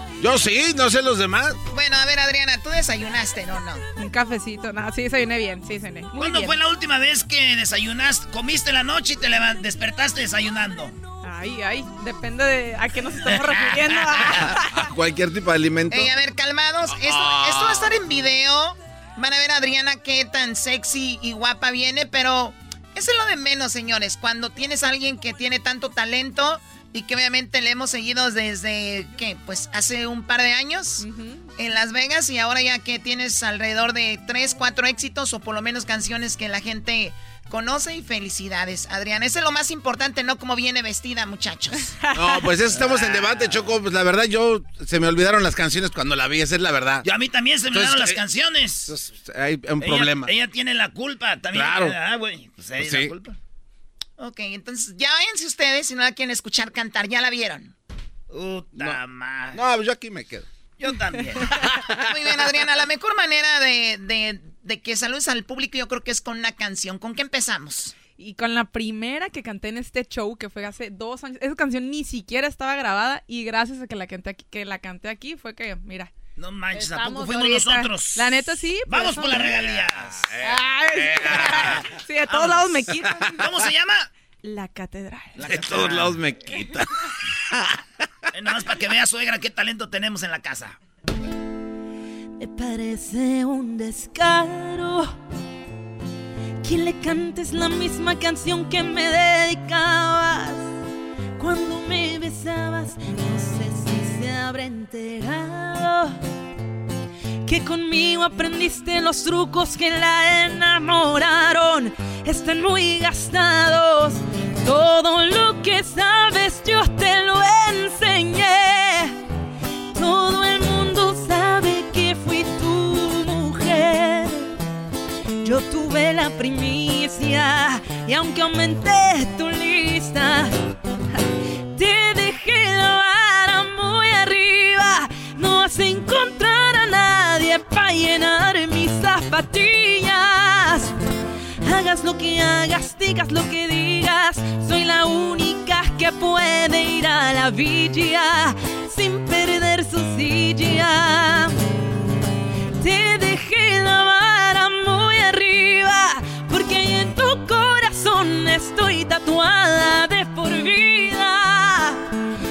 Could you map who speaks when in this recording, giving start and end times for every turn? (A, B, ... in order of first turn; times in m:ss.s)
0:00.2-0:01.6 A
0:01.7-0:03.8 B
0:04.0-0:06.5 C
0:06.2-0:11.0 D
0:11.2-0:14.9 C
0:14.4-0:16.2 A
0:15.9-0:31.0 B
0:16.9-0:18.0 A
0:31.0-0:31.5 C
0:31.6-0:42.0 B
0:42.0-0:42.4 C
0:42.1-0:47.1 A
0:47.0-0:48.9 D
0:47.7-0:48.2 A
0:48.8-0:50.3 A
0:49.8-0:53.4 D
0:51.5-0:52.0 A
0:52.8-0:53.1 A
0:54.2-0:57.7 B
0:58.3-0:59.6 D
0:59.5-1:00.5 A
1:00.8-1:01.7 D
1:01.6-1:02.2 A
1:02.1-1:08.0 B
1:08.1-1:16.1 C
1:16.4-1:20.5 D
1:16.9-1:19.6 C
1:19.5-1:21.9 A
1:20.6-1:23.5 C
1:21.2-1:24.1 D
1:24.4-1:25.5 C
1:25.4-1:26.9 A
1:25.4-1:26.2 D
1:27.5-1:27.8 A
1:28.3-1:30.8 D
1:32.4-1:35.1 E
1:36.6-1:40.8 E
1:41.4-1:46.2 E
1:47.4-1:59.2 E
1:59.9-2:04.5 E
2:05.4-2:10.5 E
2:11.7-2:20.9 E
2:21.6-2:31.6 E
2:32.8-2:42.0 E